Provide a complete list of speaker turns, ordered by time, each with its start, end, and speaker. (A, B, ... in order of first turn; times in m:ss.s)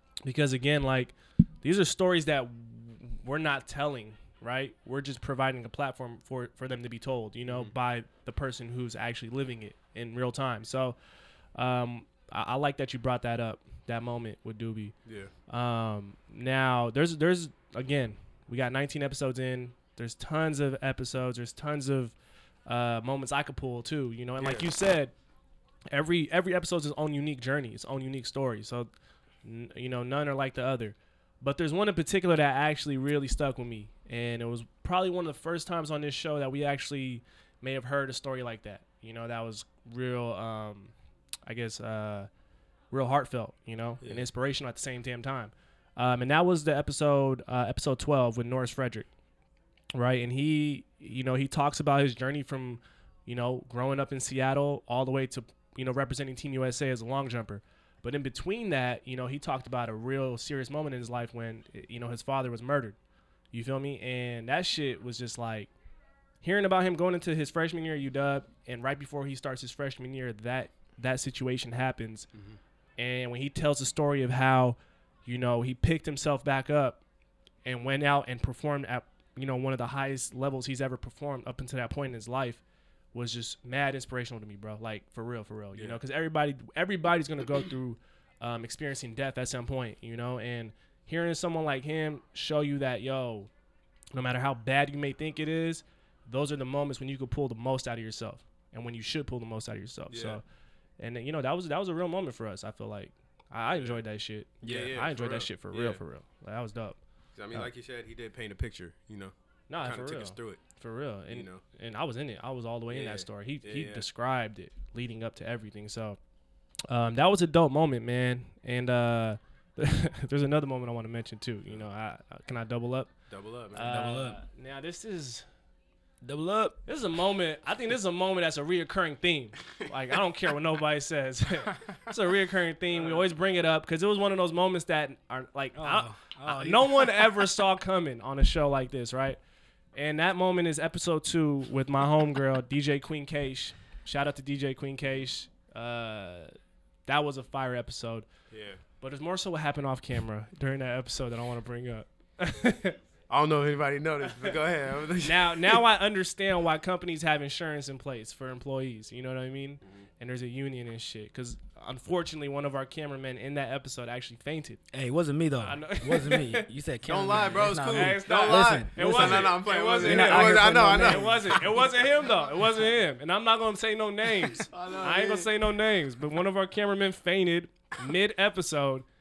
0:00.2-0:11.0 A
0:07.5-0:07.7 B
0:11.5-0:14.9 A
0:15.0-0:15.3 B
0:15.5-0:22.1 A
0:22.6-0:25.1 A
0:24.4-0:24.7 B
0:25.9-0:28.9 A
0:29.4-0:40.9 A
0:41.4-0:42.3 A
0:42.9-0:49.1 A
0:49.9-1:03.0 A
1:03.5-1:05.7 A
1:06.4-1:12.3 A
1:13.0-1:17.0 A
1:17.6-1:22.6 A
1:23.1-1:33.5 A
1:34.1-1:40.4 A
1:40.1-1:40.4 B
1:41.0-1:47.0 A
1:44.6-1:44.9 C
1:44.6-1:46.0 B
1:47.3-1:50.6 B
1:49.7-1:56.2 A
1:51.3-1:51.6 B
1:52.9-1:54.0 B
1:56.9-2:03.1 A
2:03.3-2:04.2 B
2:03.7-2:05.4 A
2:03.8-2:04.4 C
2:06.2-2:06.8 C
2:06.8-2:19.4 A
2:15.8-2:17.3 C
2:19.9-2:26.5 A
2:27.1-2:28.3 A
2:28.5-2:28.8 B
2:29.0-2:33.0 A
2:33.3-2:35.8 B
2:34.2-2:34.6 A
2:35.2-2:44.8 A
2:44.9-2:51.7 C
2:45.6-2:46.7 A
2:47.0-2:51.8 B
2:47.9-2:59.0 A
2:54.6-2:55.5 B